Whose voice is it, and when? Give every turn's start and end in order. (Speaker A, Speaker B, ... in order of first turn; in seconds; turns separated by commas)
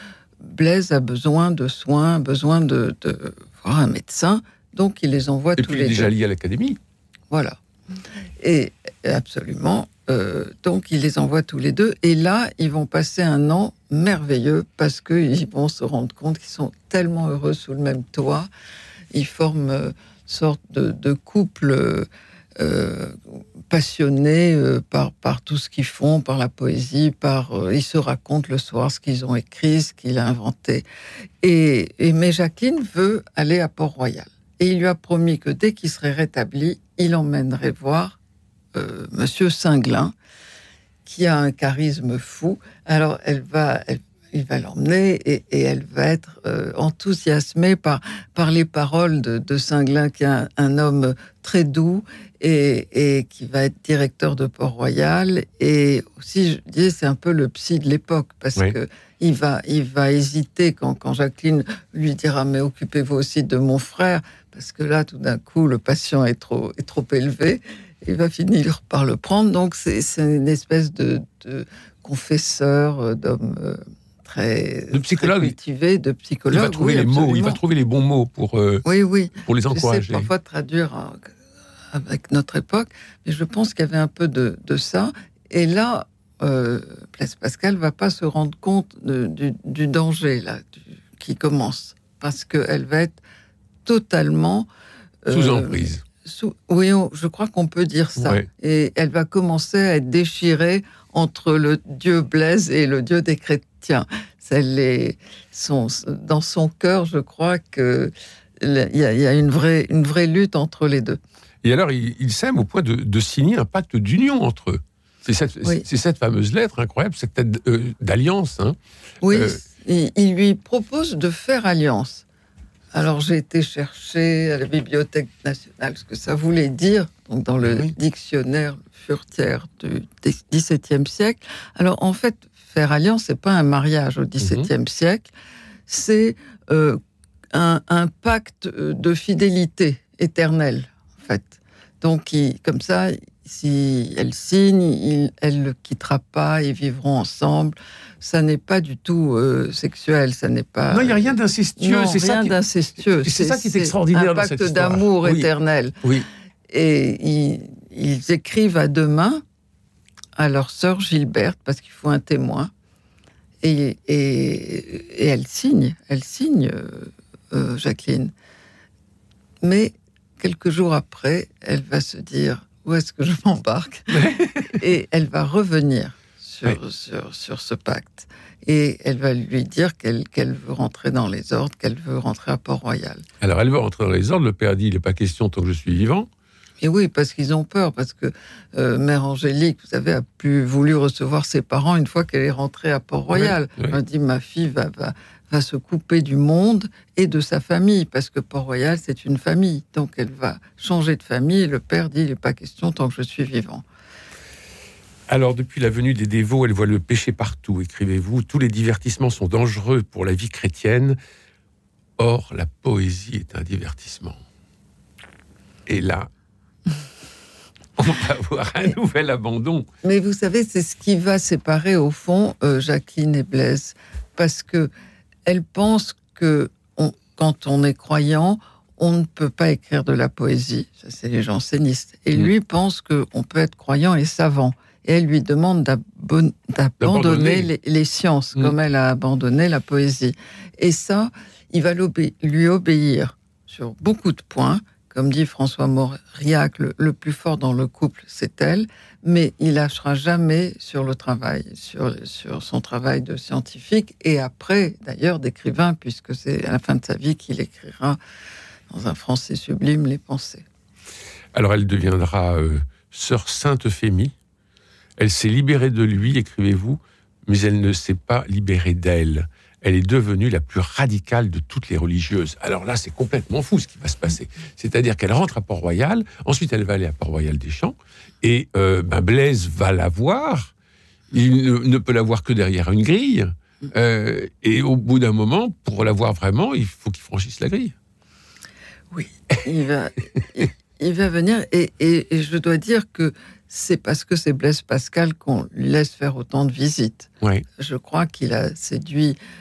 Speaker A: 0.4-6.1, Speaker B: 5.6-6.8, Speaker A: 7.3-7.6, Speaker A: 8.4-18.5, Speaker A: 19.1-23.2, Speaker A: 23.7-30.8, Speaker A: 31.4-38.2, Speaker A: 38.7-40.1, Speaker A: 41.0-77.6, Speaker B: 74.9-75.5, Speaker B: 76.5-78.8, Speaker A: 78.8-81.3, Speaker B: 79.4-80.3, Speaker A: 81.9-93.2, Speaker A: 93.8-94.7, Speaker A: 95.2-111.2, Speaker B: 95.3-96.0, Speaker B: 98.2-98.5, Speaker B: 111.6-118.8, Speaker A: 119.2-122.2, Speaker B: 119.3-119.6, Speaker A: 122.9-135.3, Speaker B: 127.6-127.9, Speaker B: 134.4-134.7, Speaker A: 135.9-137.0, Speaker A: 137.5-156.0, Speaker B: 150.9-155.5, Speaker A: 156.7-159.4, Speaker A: 160.4-162.7, Speaker A: 163.6-168.3, Speaker A: 169.6-183.2, Speaker B: 174.1-174.8, Speaker B: 183.4-186.3, Speaker A: 186.8-203.8, Speaker B: 193.3-194.0, Speaker B: 205.3-211.2, Speaker B: 212.2-214.4, Speaker B: 215.8-216.3, Speaker B: 218.0-219.9, Speaker A: 220.0-224.9, Speaker A: 225.4-258.2, Speaker B: 237.0-237.7, Speaker A: 258.9-260.6, Speaker B: 261.5-264.3, Speaker B: 265.2-280.7, Speaker B: 281.3-287.9, Speaker A: 289.1-299.4